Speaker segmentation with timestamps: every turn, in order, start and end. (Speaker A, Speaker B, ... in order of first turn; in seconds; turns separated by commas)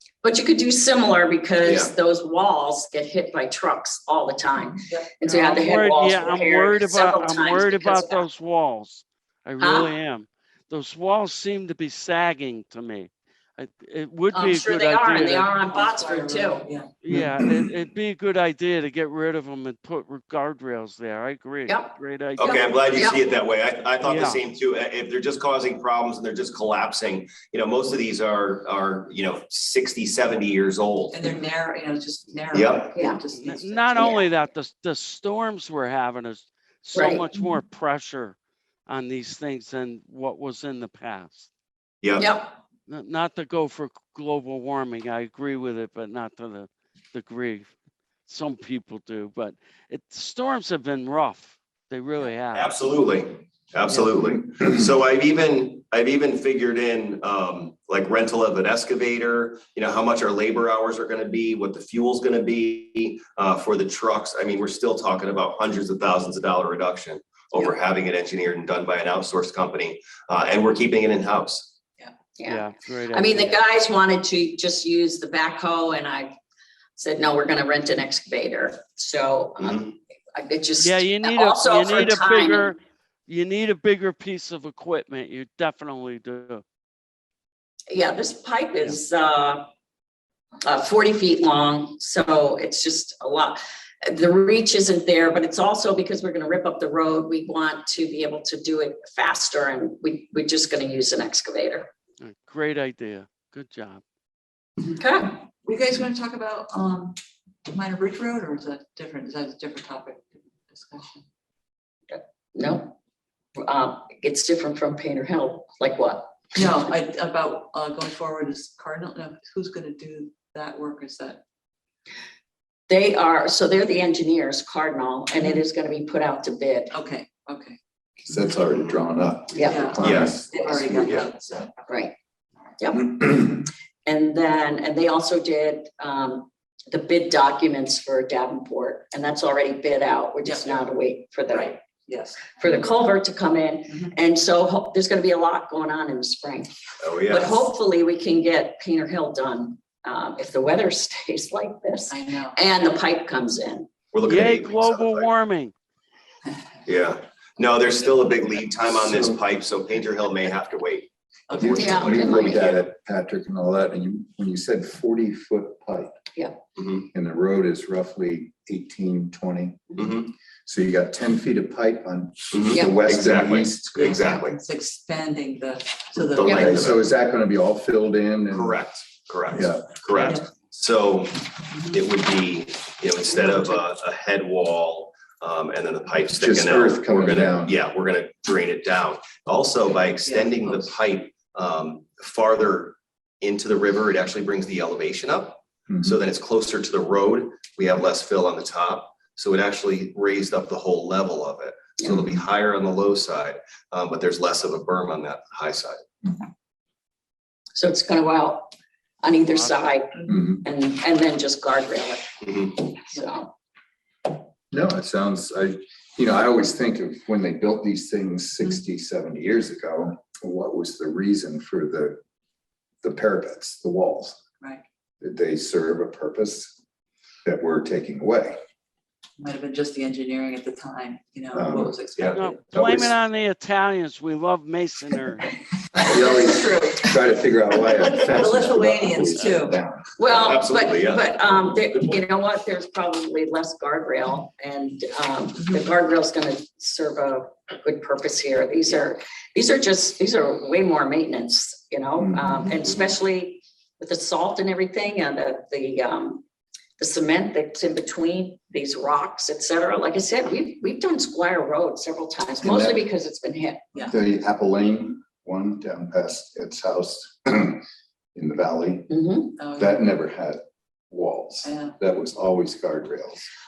Speaker A: 0.2-8.2, Speaker B: 1.6-1.9, Speaker C: 5.2-15.5, Speaker A: 9.6-9.9, Speaker A: 14.3-16.7, Speaker D: 15.3-16.9, Speaker C: 17.0-23.1, Speaker A: 21.7-23.2, Speaker B: 22.4-31.2, Speaker C: 24.0-24.4, Speaker D: 31.1-34.2, Speaker B: 32.5-32.9, Speaker A: 33.0-33.2, Speaker C: 33.3-38.4, Speaker A: 34.0-34.2, Speaker A: 36.9-37.2, Speaker C: 38.9-41.5, Speaker B: 42.0-42.3, Speaker A: 42.2-42.6, Speaker C: 42.9-47.7, Speaker C: 48.3-52.8, Speaker B: 52.5-71.7, Speaker A: 72.4-76.3, Speaker C: 72.5-73.6, Speaker A: 77.0-82.7, Speaker B: 79.6-79.9, Speaker C: 80.8-86.6, Speaker A: 87.9-89.7, Speaker A: 90.7-101.9, Speaker C: 102.2-104.0, Speaker A: 104.9-105.3, Speaker D: 105.6-111.2, Speaker A: 112.1-113.0, Speaker A: 113.6-116.4, Speaker D: 116.5-121.4, Speaker A: 122.9-126.9, Speaker D: 126.9-127.8, Speaker E: 128.3-131.2, Speaker A: 129.5-129.8, Speaker D: 129.7-132.0, Speaker B: 130.0-130.4, Speaker A: 132.8-141.8, Speaker D: 140.4-140.9, Speaker D: 141.5-142.8, Speaker A: 142.5-146.7, Speaker D: 143.9-144.1, Speaker B: 147.0-147.7, Speaker A: 147.3-153.9, Speaker D: 152.1-152.6, Speaker B: 154.1-155.3, Speaker C: 154.2-155.8, Speaker B: 156.8-161.1, Speaker E: 159.0-159.4, Speaker D: 161.5-162.3, Speaker E: 161.6-166.1, Speaker B: 161.6-162.5, Speaker A: 161.7-162.7, Speaker B: 166.8-167.1, Speaker E: 167.1-174.4, Speaker B: 169.9-170.3, Speaker B: 172.5-174.6, Speaker A: 172.7-173.0, Speaker D: 173.9-176.9, Speaker B: 176.3-177.0, Speaker E: 176.4-178.8, Speaker A: 176.4-176.7, Speaker B: 178.5-206.1, Speaker E: 179.5-179.9, Speaker D: 180.1-180.4, Speaker E: 186.4-187.8, Speaker D: 190.2-190.9, Speaker E: 195.9-196.2, Speaker A: 207.8-213.5, Speaker C: 209.4-209.9, Speaker E: 210.3-210.6, Speaker B: 212.4-212.8, Speaker E: 214.7-222.2, Speaker E: 223.0-224.4, Speaker E: 225.2-226.8, Speaker E: 227.4-228.6, Speaker D: 229.4-232.7, Speaker E: 231.5-232.0, Speaker C: 232.3-235.5, Speaker E: 232.7-233.2, Speaker E: 236.1-240.1, Speaker D: 236.1-236.8, Speaker A: 236.6-236.9, Speaker D: 238.2-239.8, Speaker A: 240.2-256.4, Speaker B: 240.3-241.6, Speaker E: 252.2-252.8, Speaker A: 257.0-264.0, Speaker E: 262.6-263.1, Speaker E: 264.1-267.8, Speaker E: 268.4-269.1, Speaker A: 269.1-269.6, Speaker D: 269.6-270.0, Speaker E: 269.8-273.5, Speaker D: 271.6-272.0